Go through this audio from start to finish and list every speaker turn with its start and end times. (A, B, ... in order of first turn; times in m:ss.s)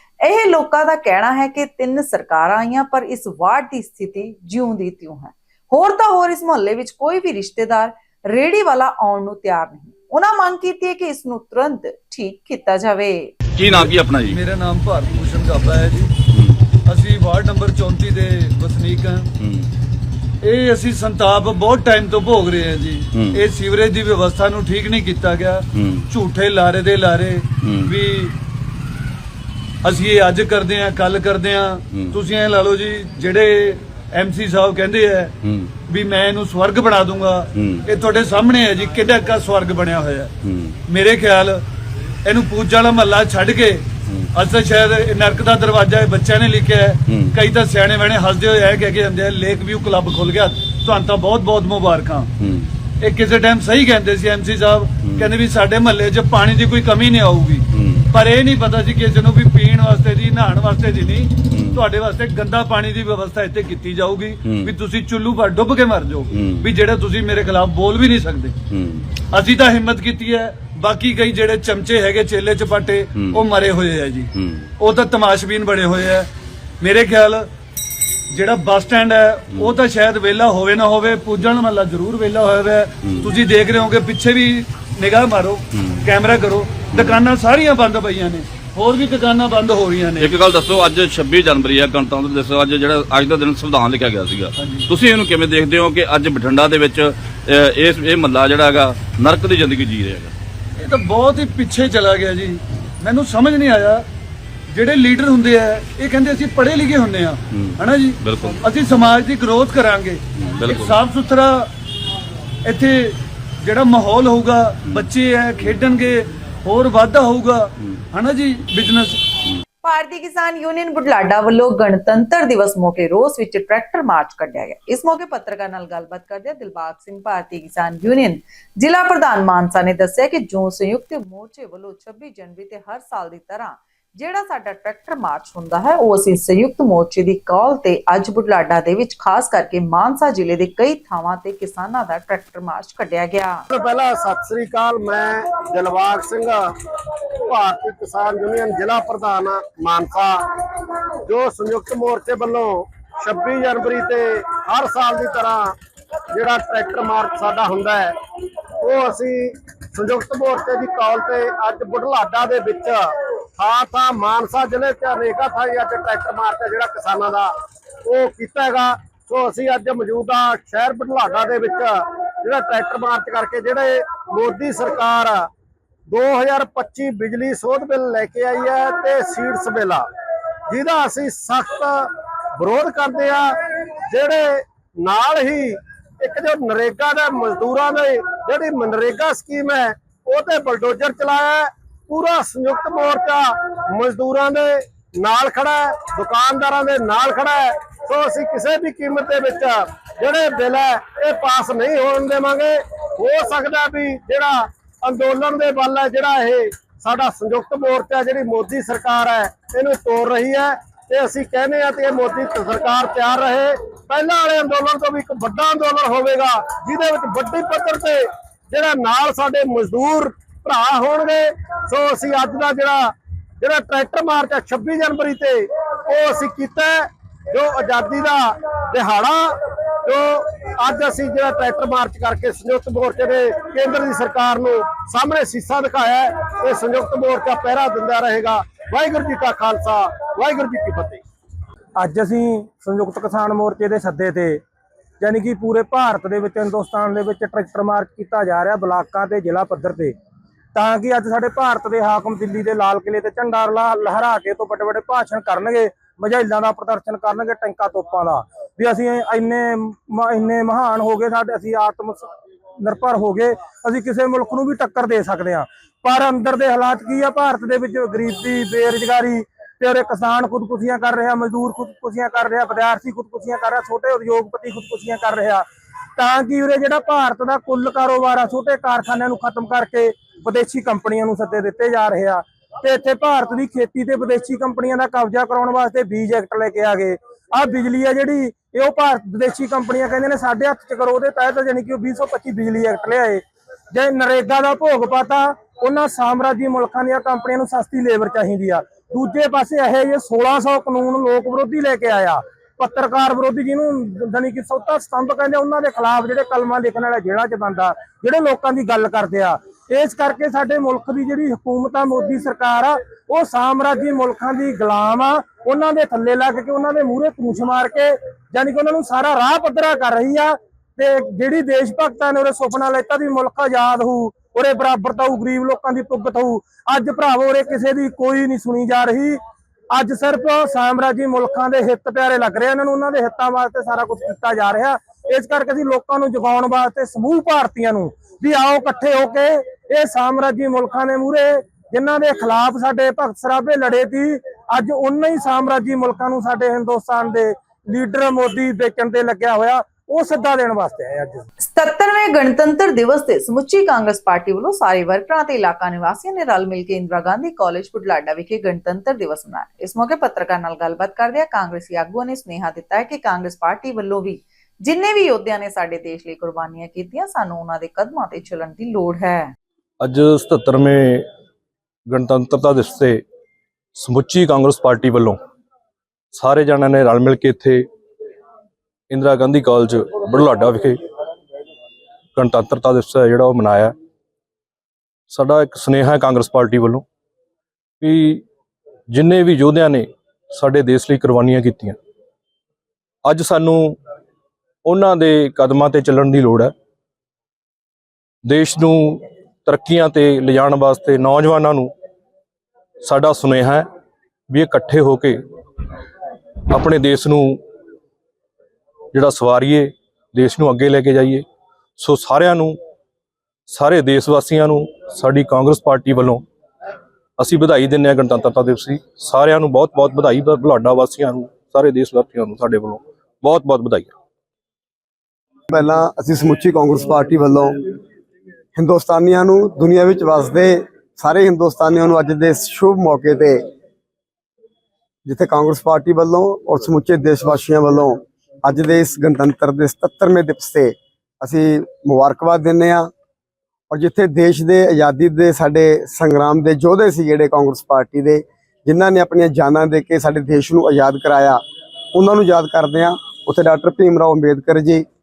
0:00.2-0:13.3 A
0:13.6-0:14.4 B
0:13.6-0:16.2 C
0:16.9-0:19.3 C
0:19.4-0:19.7 B
0:20.4-0:28.4 C
0:23.1-0:23.4 B
0:25.8-0:26.0 B
0:27.6-0:27.9 B
0:29.8-0:35.4 C
0:35.4-0:35.7 B
0:35.9-0:40.3 C
0:37.6-0:37.8 B
0:40.4-0:40.8 B
0:40.8-0:41.6 C
0:42.2-0:52.3 C
0:47.1-0:47.4 B
0:52.4-0:52.7 B
0:53.0-1:08.6 C
0:57.7-0:58.0 B
1:01.5-1:01.8 B
1:04.4-1:04.7 B
1:06.3-1:06.7 B
1:08.7-1:09.0 B
1:09.2-1:16.3 C
1:13.2-1:13.4 B
1:14.3-1:14.7 B
1:16.8-1:17.5 C
1:18.3-1:30.4 C
1:23.0-1:23.3 B
1:25.7-1:26.0 B
1:26.9-1:27.2 B
1:30.2-1:40.3 B
1:34.6-1:34.9 C
1:40.8-1:44.0 C
1:44.7-1:51.7 C
1:47.5-1:48.6 B
1:50.4-1:51.0 B
1:52.6-1:59.2 C
1:59.8-2:23.7 A
2:23.7-2:26.6 D
2:27.5-2:30.4 D
2:31.3-2:35.7 D
2:36.4-2:38.1 D
2:38.8-2:43.0 D
2:43.6-2:47.5 D
2:48.1-2:51.9 D
2:52.4-2:55.4 D
2:56.1-3:00.0 D
3:00.7-3:01.9 D
3:02.6-3:03.5 D
3:04.1-3:04.5 D
3:05.0-3:05.7 D
3:06.2-3:38.2 D
3:38.7-3:47.0 D
3:47.5-4:01.2 D
4:02.0-4:04.6 E
4:05.2-4:10.2 E
4:10.7-4:35.7 E
4:36.2-5:51.4 E
5:51.6-6:09.5 A
6:10.0-6:11.3 F
6:12.1-6:13.2 F
6:14.0-6:15.4 F
6:16.3-6:17.9 F
6:19.1-6:21.0 F
6:22.4-6:23.9 F
6:25.3-6:27.0 F
6:28.0-6:28.4 F
6:29.1-6:32.0 F
6:33.2-6:34.0 F
6:34.9-6:36.7 F
6:38.4-6:41.9 F
6:43.0-6:43.9 F
6:44.5-6:45.4 F
6:46.7-6:47.6 F
6:49.1-6:51.4 F
6:52.0-6:52.8 F
6:53.7-6:56.4 F
6:57.4-7:04.1 F
7:05.7-7:08.0 G
7:08.8-7:13.6 G
7:15.3-7:23.1 G
7:23.9-7:31.6 G
7:32.1-7:35.0 G